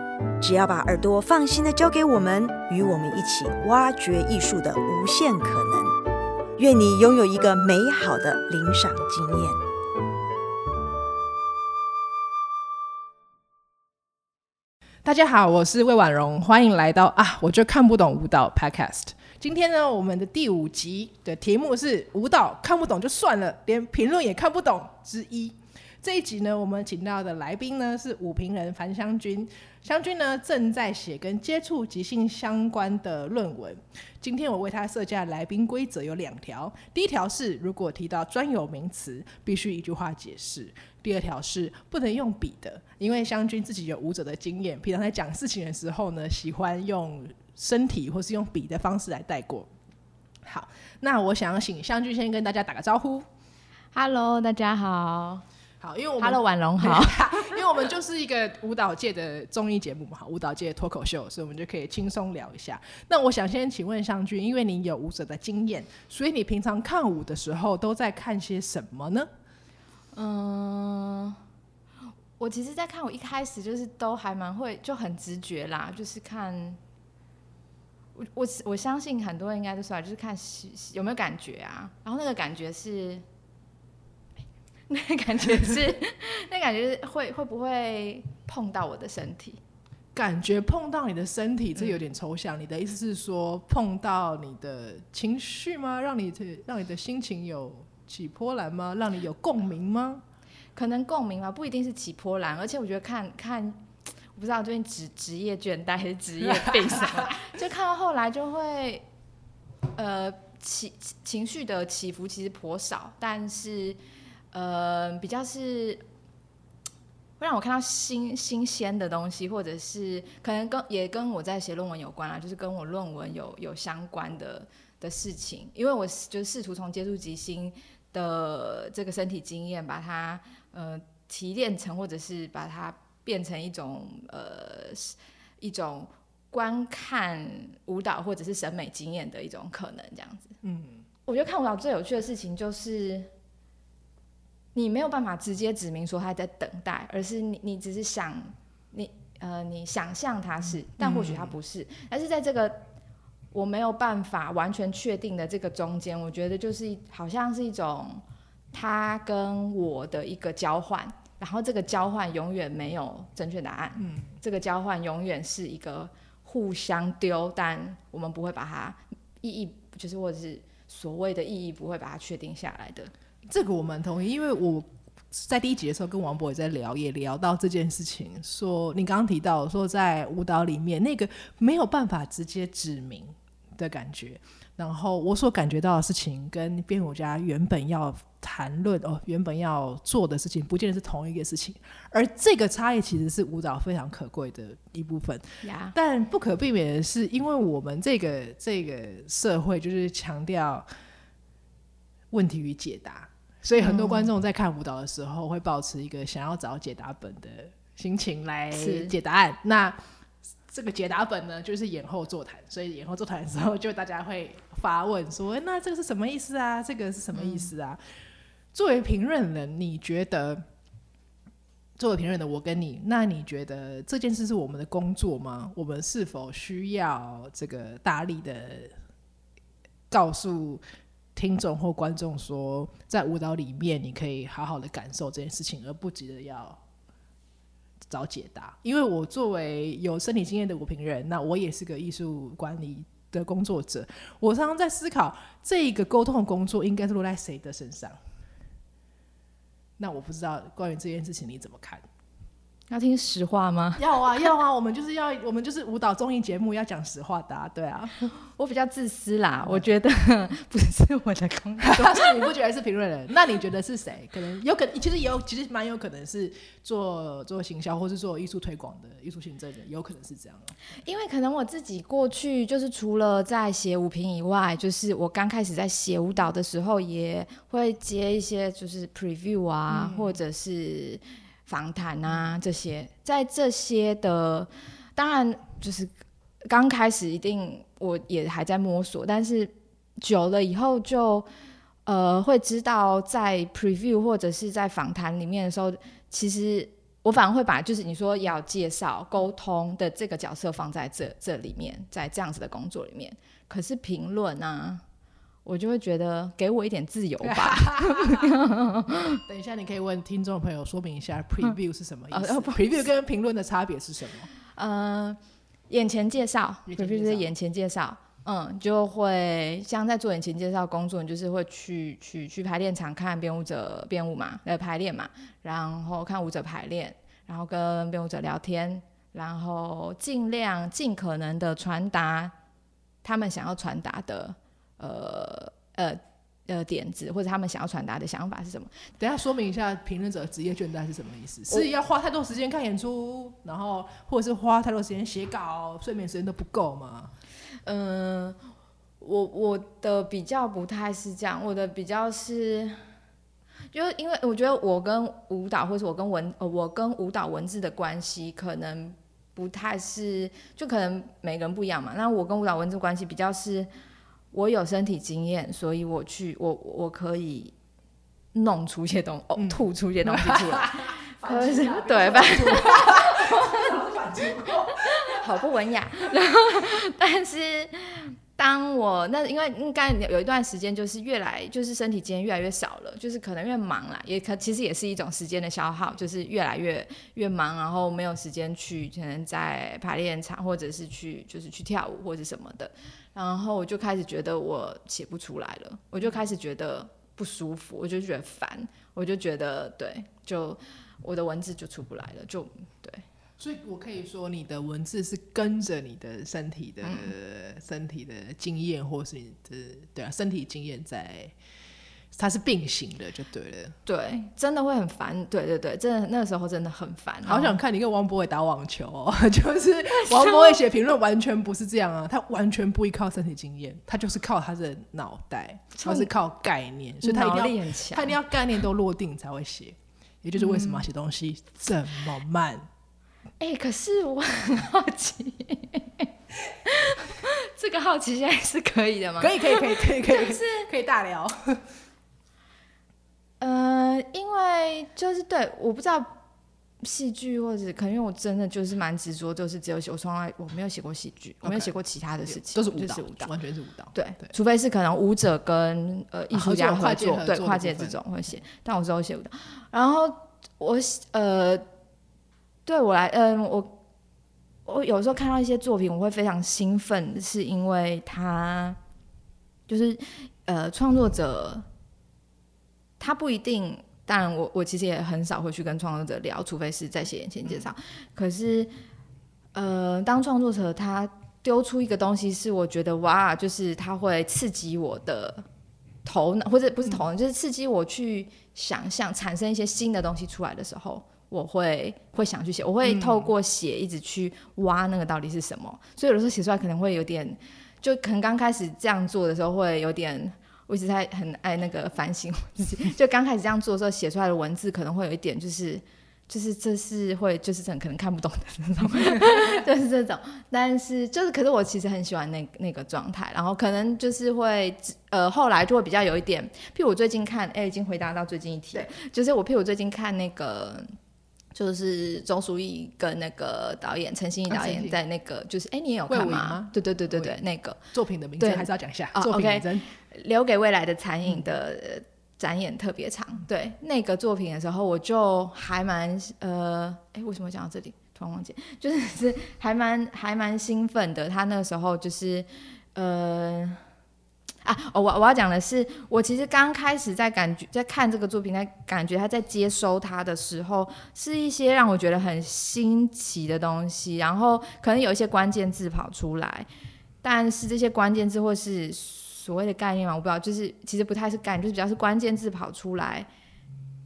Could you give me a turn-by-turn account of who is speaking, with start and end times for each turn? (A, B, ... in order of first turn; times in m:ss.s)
0:00.4-0:05.9 A
0:06.6-0:09.6 A
0:15.0-0:49.7 B
0:50.4-0:53.3 B
0:53.9-0:55.4 C
0:55.8-1:09.3 B
0:56.2-0:57.5 C
1:10.1-1:11.4 C
1:12.4-1:16.8 C
1:18.1-1:23.2 C
1:24.9-1:29.6 C
1:30.1-1:40.2 B
1:40.7-1:43.8 C
1:44.3-1:49.0 C
1:46.5-1:47.2 B
1:49.9-1:54.0 C
1:54.5-1:56.0 C
1:57.4-2:20.5 C
2:20.6-2:21.0 B
2:21.3-2:23.3 C
2:24.7-2:32.8 C
2:31.0-2:31.6 B
2:33.5-2:53.1 C
2:44.0-2:44.3 B
2:53.5-3:20.9 B
3:15.6-3:15.9 C
3:22.3-3:30.0 B
3:23.8-3:24.3 C
3:28.7-3:29.1 C
3:30.7-3:38.0 B
3:37.4-3:37.7 C
3:38.7-3:40.6 B
3:42.0-3:48.9 B
3:50.1-3:50.8 B
3:51.4-3:56.8 B
3:58.1-4:08.2 B
4:10.0-4:12.0 B
4:12.9-4:14.2 C
4:14.0-4:18.2 B
4:18.4-4:22.3 C
4:19.6-4:19.9 B
4:21.8-4:30.7 B
4:31.0-4:46.1 C
4:39.9-4:40.4 B
4:46.6-4:51.5 C
4:52.0-5:05.0 C
5:05.6-5:09.4 C
5:07.4-5:08.5 B
5:09.4-5:14.5 B
5:12.3-5:13.0 C
5:14.7-5:15.4 C
5:15.9-5:32.5 C
5:16.8-5:17.5 B
5:33.2-5:38.9 C
5:39.2-5:47.3 B
5:47.8-5:48.6 C
5:49.2-5:53.0 C
5:53.9-6:03.9 C
6:04.5-6:07.7 C
6:08.5-6:14.1 C
6:09.6-6:15.4 B
6:14.9-6:43.2 C
6:43.6-6:51.5 B
6:47.0-6:47.3 C
6:52.3-6:54.0 B
6:54.0-6:57.8 C
6:57.4-7:12.8 B
7:00.2-7:00.8 C
7:06.0-7:06.3 C
7:07.2-7:08.4 C
7:10.6-7:11.0 C
7:13.6-7:16.3 C
7:16.8-7:20.9 C
7:19.4-7:21.8 B
7:23.6-7:26.3 C
7:27.0-7:33.5 C
7:31.6-7:31.9 B
7:32.5-7:34.5 B
7:34.1-7:41.8 C
7:36.5-7:38.2 B
7:42.8-7:44.0 C
7:44.8-7:49.0 C
7:49.9-7:51.8 C
7:53.2-7:58.9 C
7:59.7-8:05.6 C
8:06.2-8:41.1 C
8:13.0-8:13.5 B
8:29.2-8:29.8 B
8:41.7-8:48.0 C
8:44.7-8:45.2 B
8:46.3-8:47.6 B
8:48.1-8:50.1 B
8:48.6-9:04.0 C
9:04.8-9:16.9 C
9:17.4-9:23.5 C